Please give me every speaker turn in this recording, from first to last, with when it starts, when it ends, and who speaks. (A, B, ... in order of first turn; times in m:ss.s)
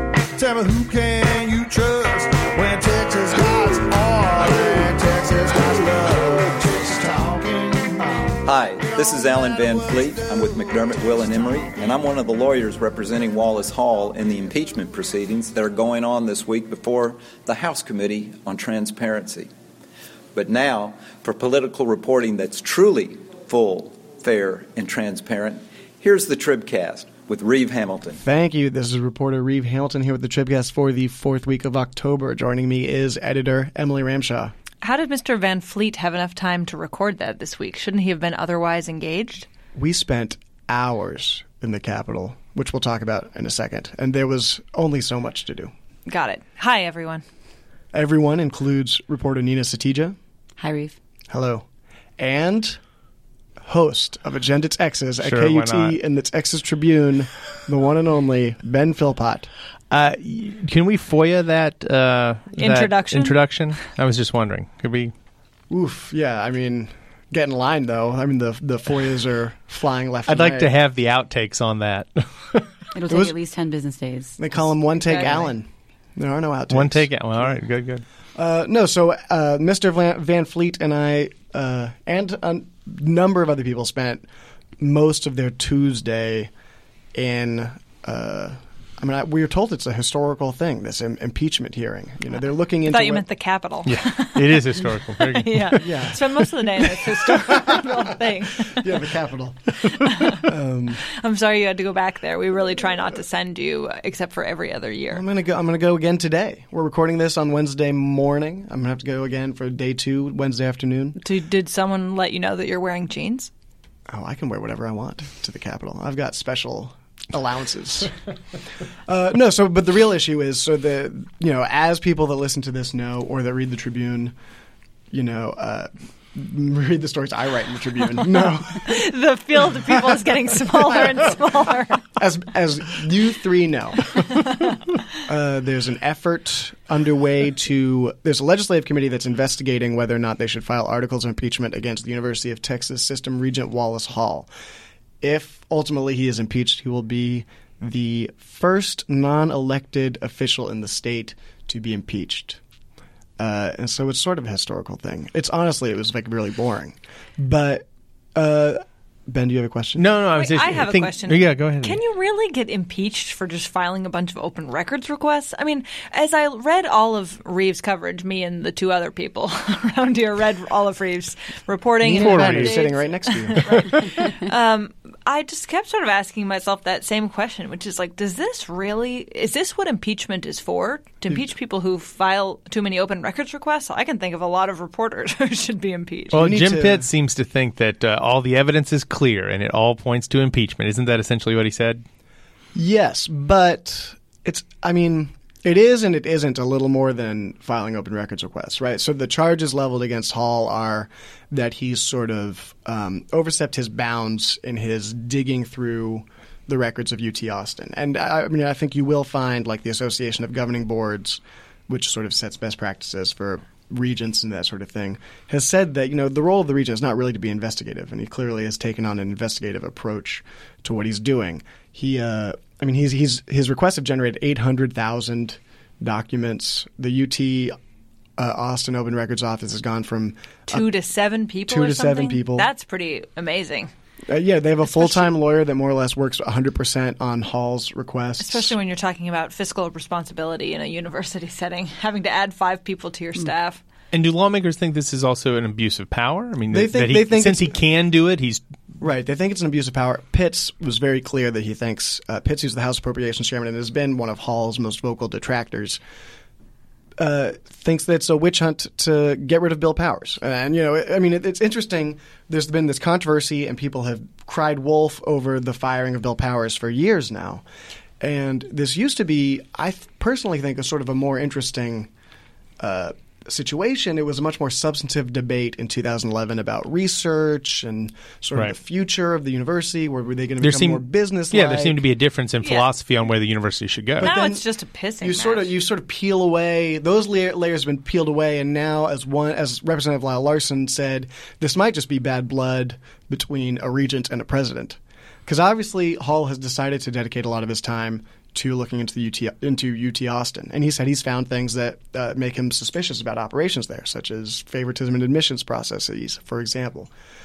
0:00.4-0:11.8 A
0:08.4-0:19.5 B
0:20.4-0:28.2 B
0:28.2-0:34.6 C
0:34.8-0:39.5 D
0:39.8-0:45.7 C
0:46.1-0:47.2 D
0:47.9-0:50.2 C
0:50.6-0:51.0 E
0:51.3-0:51.6 C
0:52.2-0:52.8 C
0:53.6-0:59.5 C
0:55.2-0:56.0 F
0:59.9-1:05.1 F
1:02.6-1:03.4 D
1:05.7-1:10.7 C
1:10.3-1:12.7 F
1:12.9-1:15.5 E
1:13.1-1:13.4 C
1:14.4-1:17.6 C
1:16.7-1:18.0 F
1:18.4-1:24.3 C
1:24.8-1:26.5 C
1:27.2-1:33.2 C
1:32.9-1:39.0 D
1:33.9-1:36.1 F
1:35.8-1:41.0 C
1:40.0-1:40.5 D
1:41.1-1:45.2 D
1:45.1-1:51.2 C
1:51.2-1:53.5 D
1:54.1-1:58.2 C
1:59.1-2:04.3 C
2:05.1-2:09.1 C
2:08.7-2:12.1 D
2:10.7-2:11.4 C
2:12.1-2:14.5 C
2:15.2-2:24.5 C
2:25.2-2:32.6 C
2:33.4-2:40.1 C
2:40.0-2:42.0 F
2:40.3-3:06.4 D
2:52.0-2:54.3 C
2:52.1-2:52.8 F
2:53.6-2:54.0 F
3:06.3-3:12.0 F
3:06.3-3:07.1 C
3:12.8-3:47.8 C
3:48.4-3:50.9 C
3:50.7-3:53.9 D
3:51.7-3:52.7 C
3:54.3-3:58.8 C
3:58.4-4:03.8 D
4:04.1-4:08.6 F
4:06.7-4:07.8 C
4:09.0-4:16.0 C
4:17.2-4:27.6 C
4:28.2-4:32.1 C
4:32.8-4:42.0 C
4:40.6-4:44.3 F
4:42.6-4:42.9 D
4:44.2-4:44.6 C
4:44.2-4:45.7 D
4:45.2-5:07.1 C